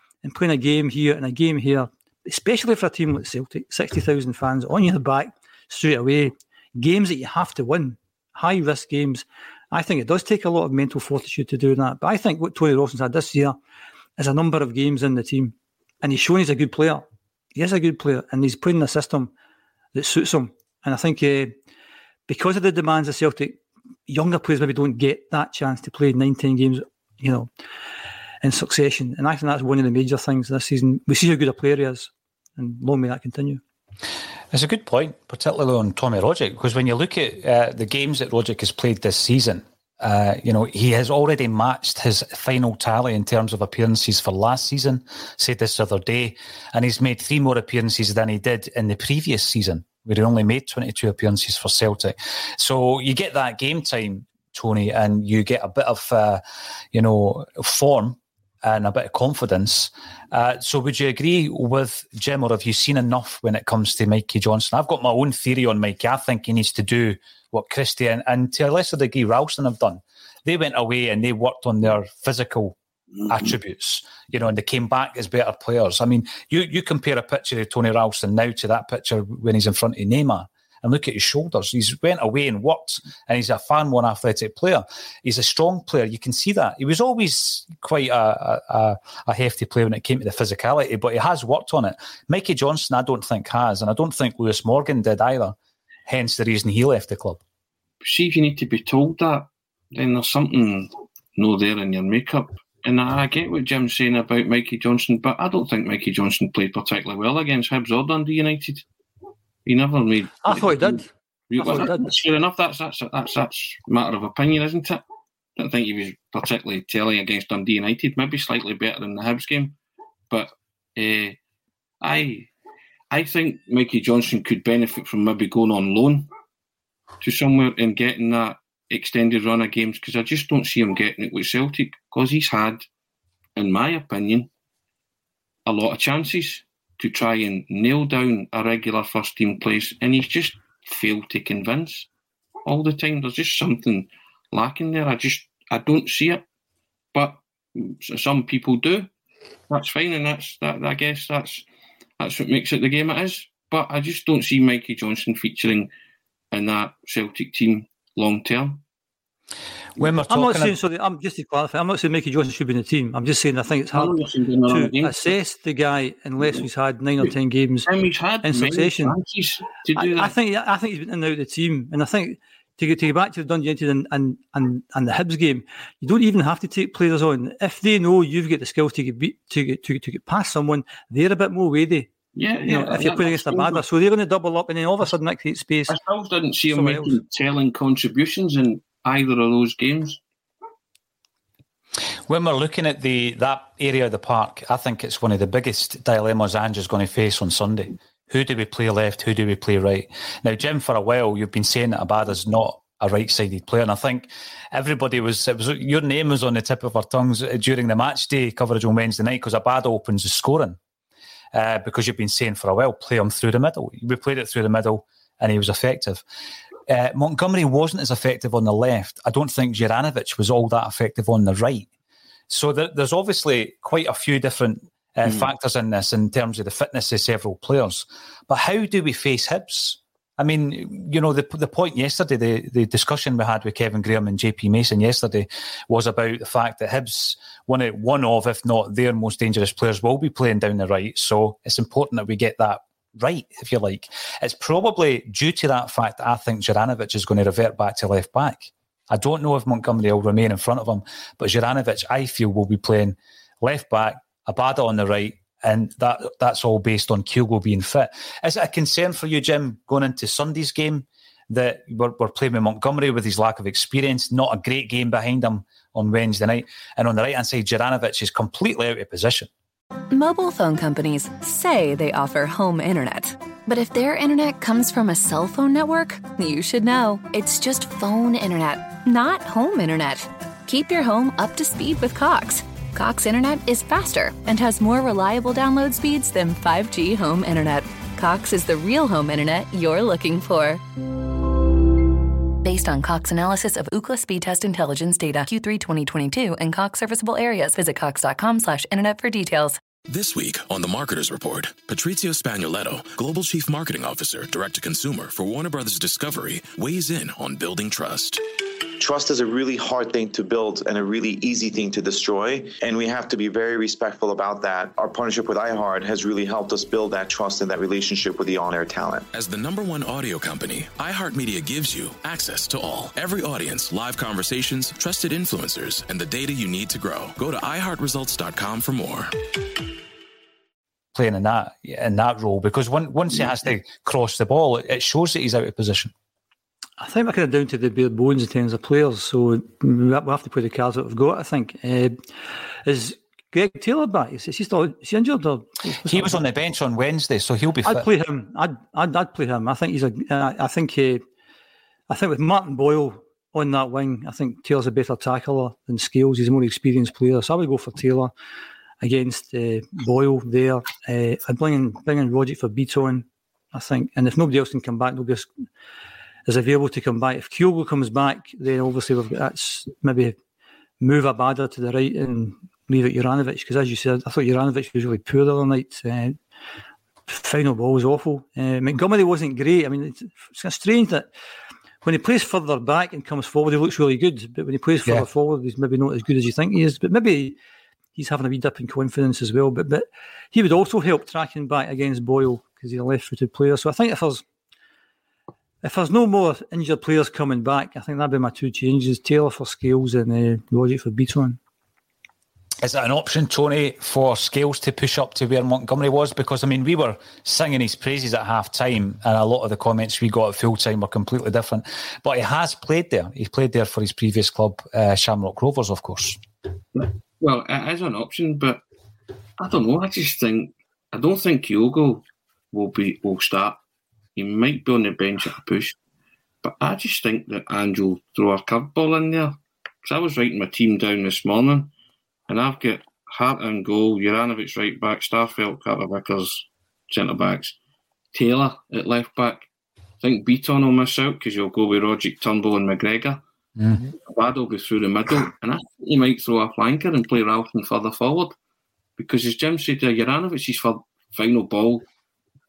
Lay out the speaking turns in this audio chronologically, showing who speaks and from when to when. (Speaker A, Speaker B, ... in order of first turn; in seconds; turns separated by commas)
Speaker A: 0.2-13.6, Speaker A: 14.2-19.3, Speaker A: 19.9-21.6, Speaker A: 22.3-27.5, Speaker A: 28.4-33.6, Speaker B: 34.5-56.4, Speaker B: 56.9-95.5, Speaker B: 96.1-97.4, Speaker C: 98.0-108.8, Speaker C: 109.7-115.0, Speaker A: 110.4-112.1, Speaker C: 115.6-119.8, Speaker C: 120.3-121.4, Speaker C: 122.0-122.5, Speaker C: 123.1-126.3, Speaker C: 127.2-132.9, Speaker C: 133.6-134.5, Speaker C: 135.7-142.1, Speaker C: 142.7-146.4, Speaker C: 147.1-149.1, Speaker C: 149.7-151.7, Speaker C: 152.2-155.9, Speaker C: 156.5-158.8, Speaker B: 160.0-160.7, Speaker A: 160.3-164.2, Speaker C: 163.9-165.3, Speaker A: 164.7-167.9, Speaker C: 167.8-170.3, Speaker A: 168.4-169.2, Speaker A: 169.9-182.1, Speaker C: 182.3-183.8, Speaker A: 182.7-185.9, Speaker C: 185.9-190.2, Speaker A: 186.7-187.2, Speaker B: 192.3-210.8, Speaker B: 211.5-216.2, Speaker B: 216.9-221.9, Speaker B: 222.5-269.5, Speaker D: 270.1-290.8, Speaker D: 292.6-299.8, Speaker E: 300.1-308.4, Speaker F: 309.0-319.3, Speaker E: 319.3-329.3, Speaker B: 331.1-336.1, Speaker A: 337.0-342.2, Speaker A: 342.8-346.4, Speaker B: 346.1-348.1, Speaker A: 347.8-351.2, Speaker A: 352.1-358.3, Speaker A: 359.0-365.5, Speaker A: 366.4-370.4, Speaker A: 371.0-376.4, Speaker A: 377.3-381.3, Speaker A: 382.0-387.6, Speaker A: 388.1-394.4, Speaker A: 395.8-401.6, Speaker B: 402.8-416.4, Speaker C: 416.9-418.8, Speaker C: 419.6-423.8, Speaker C: 424.4-426.0, Speaker C: 426.6-431.9, Speaker C: 432.5-437.8, Speaker C: 438.3-439.6, Speaker C: 440.2-443.4, Speaker C: 444.2-448.5, Speaker C: 449.2-452.1